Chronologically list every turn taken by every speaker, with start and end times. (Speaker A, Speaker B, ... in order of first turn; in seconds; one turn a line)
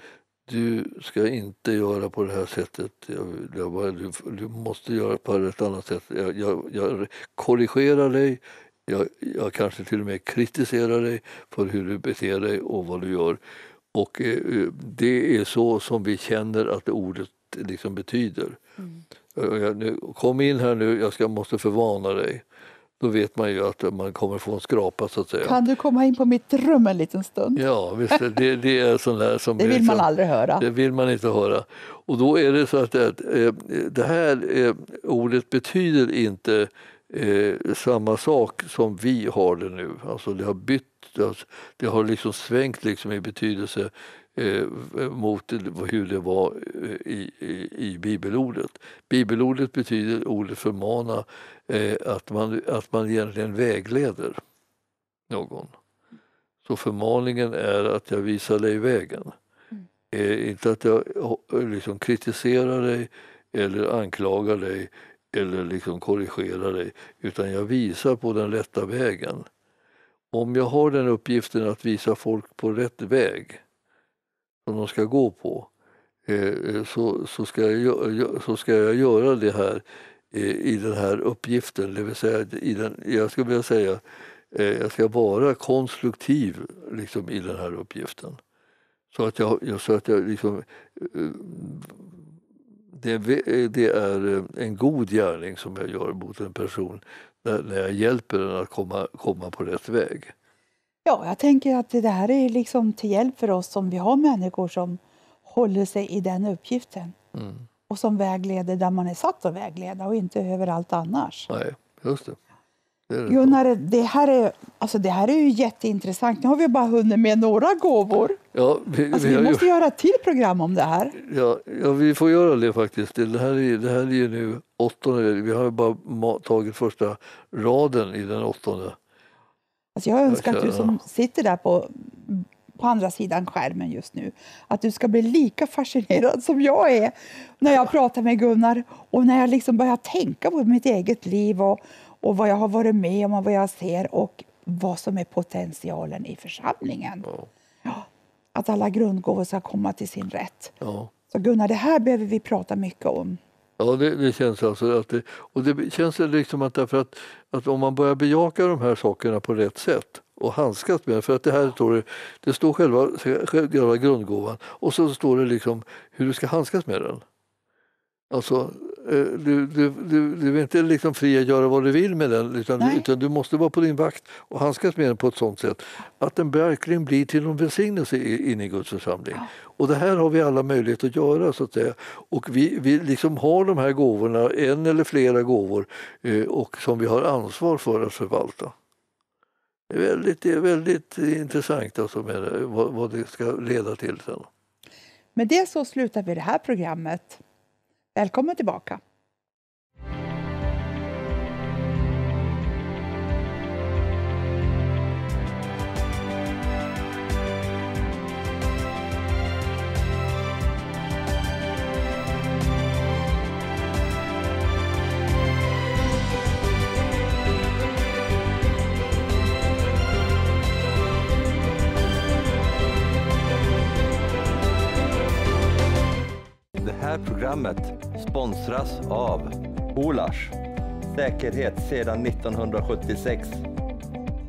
Speaker A: 0.5-13.4
Speaker A: 13.9-18.6
Speaker A: 19.3-22.4
Speaker A: 23.0-25.6
Speaker B: 25.4-28.2
Speaker A: 27.5-30.1
Speaker B: 29.6-30.6
Speaker A: 30.6-54.4
Speaker A: 55.3-55.8
Speaker A: 56.6-59.4
Speaker A: 60.1-69.5
Speaker A: 70.3-73.6
Speaker A: 74.6-75.7
Speaker A: 76.2-88.4
Speaker A: 89.1-92.1
Speaker A: 92.9-100.3
Speaker B: 101.0-107.2
Speaker A: 107.3-107.6
Speaker B: 107.9-111.5
Speaker A: 111.5-112.4
Speaker A: 113.1-113.6
Speaker B: 113.3-118.4
Speaker A: 118.5-119.7
Speaker B: 119.1-121.2
Speaker A: 121.1-129.0
Speaker B: 129.9-147.3
Speaker A: 130.3-130.9
Speaker A: 147.2-147.5
Speaker B: 147.8-150.7
Speaker A: 150.8-151.1
Speaker B: 151.3-153.4
Speaker A: 153.8-167.2
Speaker A: 168.3-188.7
Speaker B: 172.8-173.1
Speaker A: 189.9-194.5
Speaker B: 195.3-197.4
Speaker B: 198.1-199.0
Speaker C: 226.8-230.6
Speaker C: 231.1-233.6